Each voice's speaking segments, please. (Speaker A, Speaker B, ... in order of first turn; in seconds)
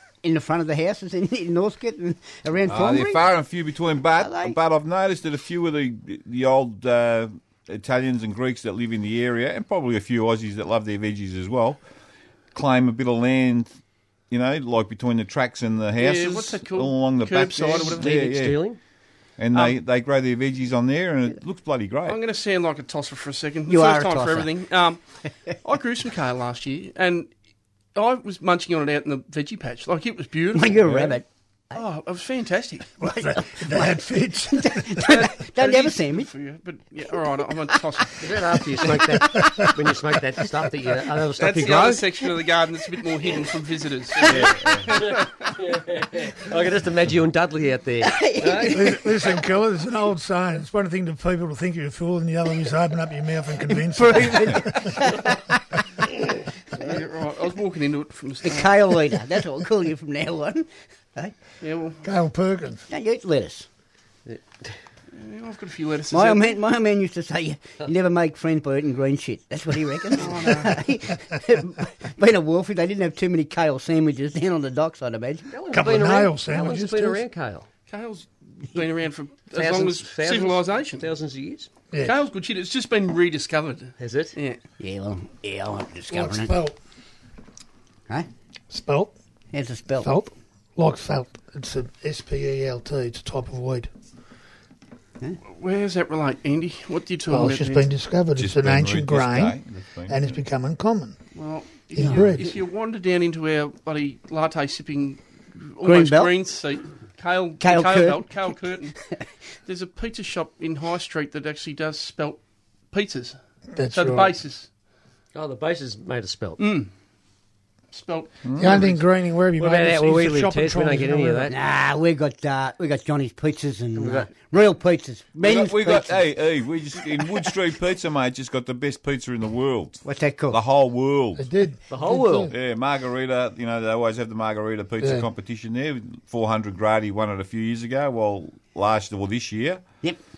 Speaker A: 0.2-3.2, 4.1-4.6, 23.7-24.5, 30.5-31.8, 33.0-36.3, 37.7-38.0, 48.0-49.3, 54.0-55.9, 58.4-61.3, 62.9-63.7, 66.1-75.5, 84.8-86.5, 89.5-90.1, 105.8-106.3, 107.6-108.5, 121.5-126.2, 130.0-130.6
Speaker B: 2.7-11.8, 12.5-13.7, 14.3-18.6, 19.4-22.2, 30.9-31.1, 44.3-44.9, 98.4-100.3, 118.4-118.9, 125.4-131.5, 132.5-139.8
Speaker C: 16.0-18.1, 22.1-25.0, 25.6-27.3, 27.9-30.9, 31.7-33.0, 35.0-38.3, 41.4-45.2, 56.8-58.8, 61.6-62.0, 65.1-66.6, 70.1-70.8, 77.9-81.0, 82.0-84.6, 95.5-97.9, 101.3-108.9, 109.7-112.4, 112.9-113.4, 113.9-114.7, 116.6-116.9, 117.9-119.0
Speaker D: 17.9-18.8, 38.2-42.1, 44.9-48.8, 64.3-64.7, 75.5-77.7, 79.5-81.7, 84.0-84.3, 115.3-116.6, 119.6-121.5, 124.0-124.3, 131.9-132.5
Speaker E: 33.0-35.0, 39.3-39.7, 48.6-55.2, 62.0-62.8, 75.7-77.2, 86.1-86.8, 88.7-89.1, 90.0-93.9, 97.3-101.2, 101.9-102.5, 113.7-114.3, 118.6-121.5, 131.4-132.5